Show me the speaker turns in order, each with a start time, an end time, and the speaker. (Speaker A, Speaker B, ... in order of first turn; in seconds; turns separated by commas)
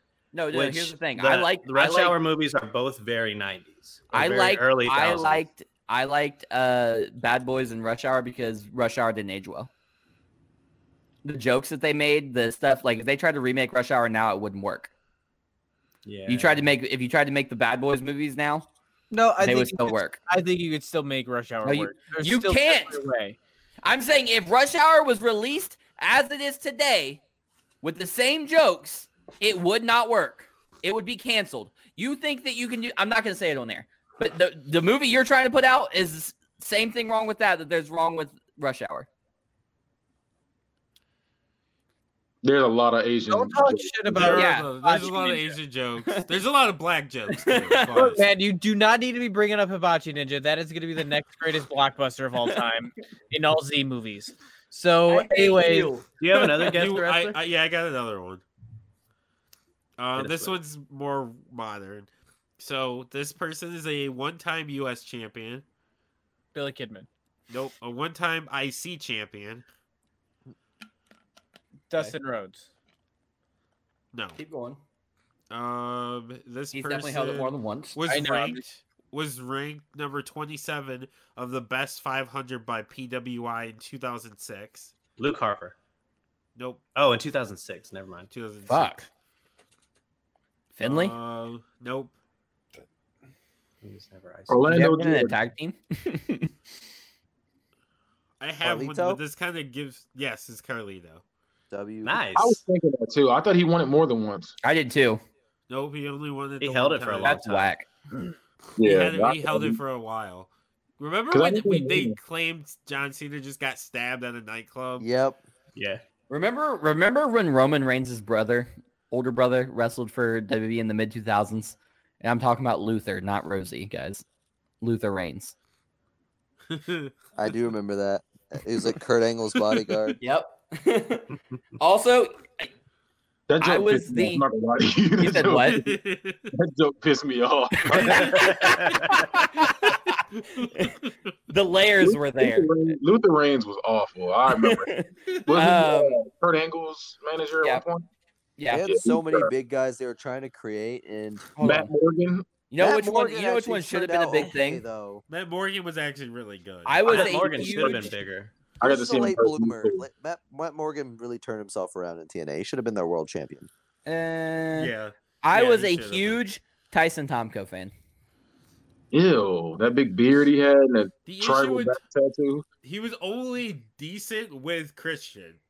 Speaker A: 0.3-2.2, Speaker B: 0.5-5.5, Speaker A: 4.1-9.7, Speaker A: 11.2-14.9, Speaker B: 16.1-16.7, Speaker A: 16.3-18.7, Speaker C: 19.1-23.4, Speaker A: 19.4-20.2, Speaker A: 21.6-23.0, Speaker A: 23.8-27.2, Speaker A: 27.8-39.1, Speaker D: 42.4-43.9, Speaker C: 43.3-45.6, Speaker E: 44.1-48.2, Speaker A: 44.2-44.7, Speaker A: 47.4-48.1, Speaker C: 47.9-56.0, Speaker A: 55.1-56.0, Speaker B: 56.2-57.4, Speaker E: 56.6-58.4, Speaker E: 60.0-65.7, Speaker B: 60.2-60.6, Speaker C: 66.5-67.1, Speaker E: 67.5-69.7, Speaker C: 71.9-72.7, Speaker E: 74.1-74.4, Speaker A: 74.4-74.8, Speaker E: 75.5-84.9, Speaker A: 76.7-78.0, Speaker C: 78.1-78.7, Speaker B: 85.2-85.8, Speaker E: 86.6-86.8, Speaker B: 87.0-88.3, Speaker E: 88.3-89.1, Speaker A: 88.7-89.1, Speaker A: 90.8-91.2, Speaker E: 90.8-92.2, Speaker B: 93.8-94.6, Speaker D: 94.5-95.4, Speaker A: 94.7-96.5, Speaker E: 98.4-101.2, Speaker F: 98.6-99.2, Speaker F: 101.7-102.2, Speaker B: 102.0-102.6, Speaker D: 102.4-104.5, Speaker A: 104.6-105.2, Speaker E: 105.7-107.4, Speaker B: 106.6-107.7, Speaker A: 107.2-107.9, Speaker D: 108.8-109.8, Speaker E: 108.8-115.1, Speaker D: 111.3-112.2, Speaker F: 115.0-115.4, Speaker B: 115.8-116.0, Speaker A: 116.3-124.2, Speaker A: 124.8-125.5, Speaker E: 126.7-127.1, Speaker F: 127.4-130.2, Speaker A: 130.2-132.7, Speaker D: 133.5-136.0, Speaker A: 133.6-134.4, Speaker A: 135.2-135.8, Speaker E: 135.7-136.5, Speaker D: 136.5-138.8, Speaker A: 137.8-141.0, Speaker B: 138.2-139.2, Speaker E: 140.3-141.1, Speaker A: 141.5-143.0, Speaker D: 142.0-144.9, Speaker A: 144.5-146.2, Speaker D: 145.5-148.1, Speaker A: 148.6-148.9, Speaker F: 148.7-151.4, Speaker D: 148.8-149.5, Speaker D: 151.6-152.5, Speaker A: 151.6-151.9, Speaker A: 152.7-154.8, Speaker F: 152.8-155.2, Speaker E: 155.3-157.4, Speaker A: 156.9-158.1, Speaker B: 157.1-158.5, Speaker D: 157.3-158.1, Speaker F: 158.8-163.7, Speaker D: 158.8-160.1, Speaker A: 164.1-167.9, Speaker E: 164.8-166.4, Speaker D: 169.1-172.7, Speaker E: 171.3-172.0, Speaker E: 172.8-175.6